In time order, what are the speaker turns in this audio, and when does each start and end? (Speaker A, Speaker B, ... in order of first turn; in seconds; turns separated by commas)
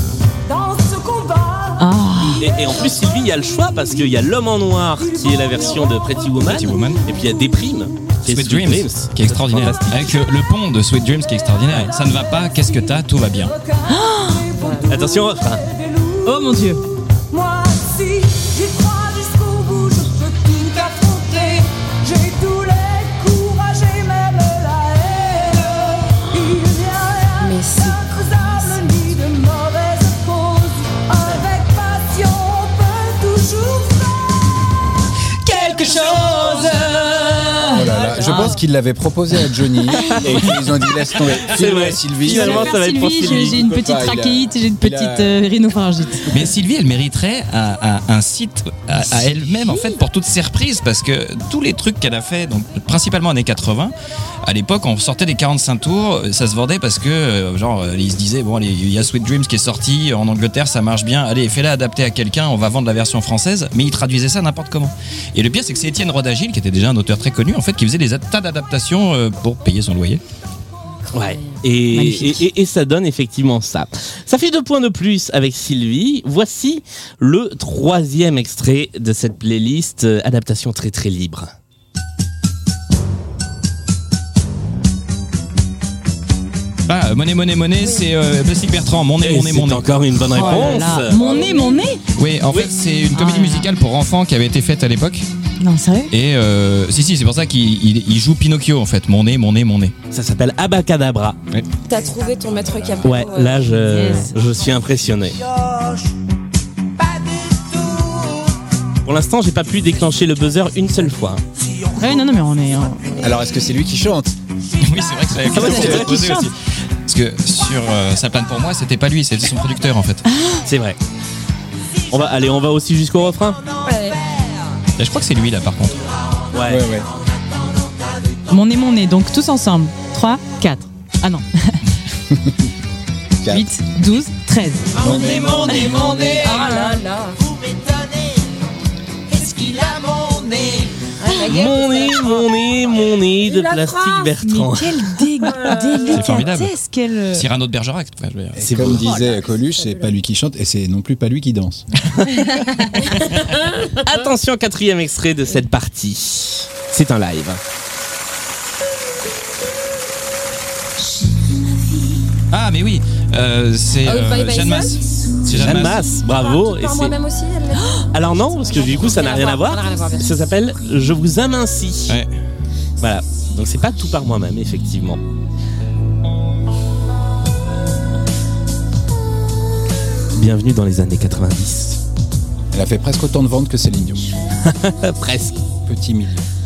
Speaker A: 0.5-4.2, Speaker B: 1.8-2.5, Speaker C: 2.4-10.1, Speaker A: 5.0-8.1, Speaker D: 6.4-7.1, Speaker D: 8.3-13.5, Speaker A: 12.2-34.5, Speaker B: 13.9-14.5, Speaker E: 14.6-15.0, Speaker C: 14.9-15.6, Speaker B: 16.2-16.8, Speaker E: 27.4-28.0, Speaker A: 35.5-37.9, Speaker B: 36.5-36.8, Speaker B: 37.5-38.6, Speaker F: 37.7-42.7, Speaker E: 37.9-38.5, Speaker B: 40.0-40.4, Speaker C: 41.4-43.6, Speaker B: 42.2-46.3, Speaker F: 43.4-45.5, Speaker F: 46.2-46.5, Speaker D: 46.3-70.2, Speaker B: 49.6-50.0, Speaker C: 71.1-81.5, Speaker B: 71.9-72.5, Speaker D: 86.9-89.9, Speaker E: 87.8-88.1, Speaker C: 89.2-91.5, Speaker B: 90.2-92.0, Speaker E: 91.4-91.7, Speaker D: 92.2-95.3, Speaker B: 93.1-93.7, Speaker B: 95.6-96.1, Speaker D: 96.1-99.9, Speaker C: 100.1-101.4, Speaker E: 101.8-103.8, Speaker F: 102.4-103.1, Speaker C: 103.0-105.4, Speaker B: 103.7-104.3, Speaker C: 109.0-111.4, Speaker B: 112.0-113.2, Speaker F: 113.2-114.3, Speaker D: 114.8-116.5, Speaker B: 115.4-116.5, Speaker C: 115.5-116.2, Speaker D: 117.0-120.2, Speaker B: 120.2-120.7, Speaker C: 120.7-121.0, Speaker C: 122.1-123.6, Speaker E: 123.8-124.2, Speaker D: 125.0-126.0, Speaker C: 126.5-126.9, Speaker F: 126.7-127.1, Speaker B: 128.5-131.8, Speaker F: 132.3-132.7, Speaker F: 133.4-133.7, Speaker B: 133.5-136.0, Speaker F: 134.9-136.3, Speaker G: 135.1-136.3, Speaker E: 136.0-137.4, Speaker B: 136.6-136.9, Speaker G: 139.3-140.8, Speaker E: 141.2-142.4, Speaker C: 141.5-145.5, Speaker E: 143.4-144.3, Speaker B: 144.4-147.5, Speaker E: 145.4-146.3, Speaker D: 146.1-146.8, Speaker D: 147.3-148.9, Speaker F: 148.5-151.8, Speaker C: 148.6-149.0, Speaker B: 148.9-149.4, Speaker E: 149.1-150.2, Speaker E: 153.0-154.0, Speaker C: 153.9-157.6, Speaker D: 162.5-166.0, Speaker E: 164.0-165.0, Speaker C: 165.5-167.1, Speaker E: 166.3-170.3, Speaker C: 168.1-172.2, Speaker C: 173.0-175.2, Speaker C: 180.3-182.0, Speaker F: 182.7-184.3, Speaker C: 184.6-185.6, Speaker F: 185.8-186.5